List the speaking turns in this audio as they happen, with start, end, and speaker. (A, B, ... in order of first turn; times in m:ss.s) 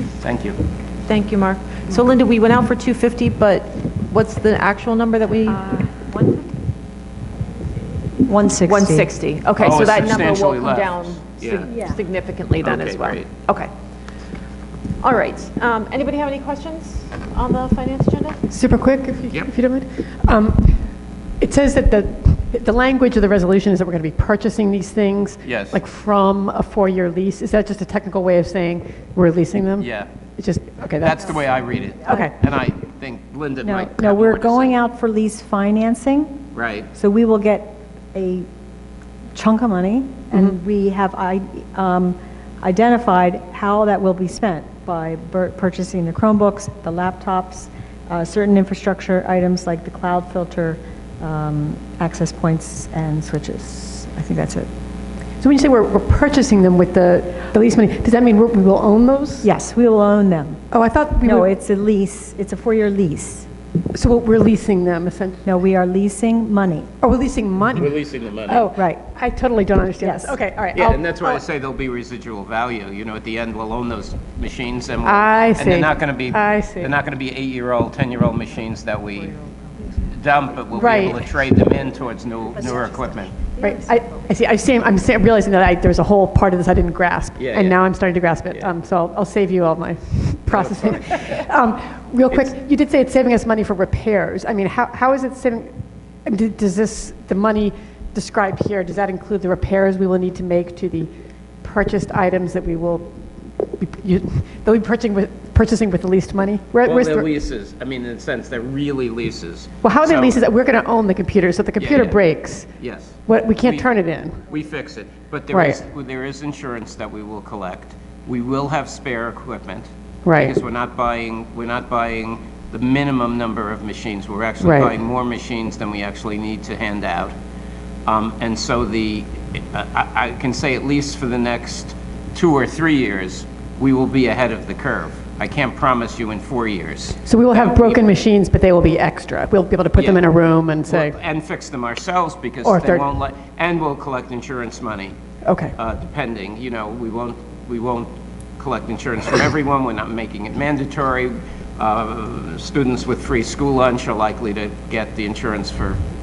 0:00.2-0:00.6 A
0:01.0-0:05.6 B
0:05.5-0:06.4 C
0:08.2-0:09.1 C
0:08.6-0:13.7 B
0:09.6-0:11.7 A
0:11.6-0:12.0 C
0:12.6-0:13.3 A
0:15.0-0:18.4 B
0:18.5-0:20.8 D
0:21.4-0:31.5 D
0:25.4-0:25.8 A
0:29.8-0:30.1 A
0:31.0-0:34.8 A
0:32.1-0:32.3 D
0:33.6-0:36.4 C
0:36.5-0:36.9 A
0:36.9-0:38.4 C
0:39.3-0:54.7 C
0:55.4-0:59.5 D
0:59.4-1:00.6 C
1:00.7-1:01.5 D
1:01.2-1:03.5 C
1:03.9-1:05.4 D
1:05.4-1:06.9 C
1:07.0-1:07.9 D
1:07.7-1:08.7 A
1:08.4-1:11.4 D
1:08.7-1:09.0 C
1:10.0-1:10.4 C
1:10.7-1:19.4 A
1:15.0-1:16.9 D
1:20.1-1:23.5 A
1:20.7-1:21.3 D
1:22.6-1:24.1 C
1:23.6-1:35.7 D
1:27.4-1:27.8 A
1:30.5-1:31.1 A
1:36.2-1:41.1 D
1:41.6-1:47.3 D
1:46.8-1:50.4 A
1:49.8-1:52.7 D
1:51.8-1:52.2 A
1:52.8-1:53.9 A
1:53.3-1:54.4 D
1:54.5-2:07.3 A
1:55.5-1:55.8 D
2:00.2-2:00.5 D
2:04.6-2:04.9 D
2:08.0-2:18.0 A
2:17.2-2:21.1 D
2:19.9-2:20.3 A
2:20.8-2:25.1 A
2:22.6-2:23.0 D
2:25.4-2:25.7 D
2:25.8-2:36.0 A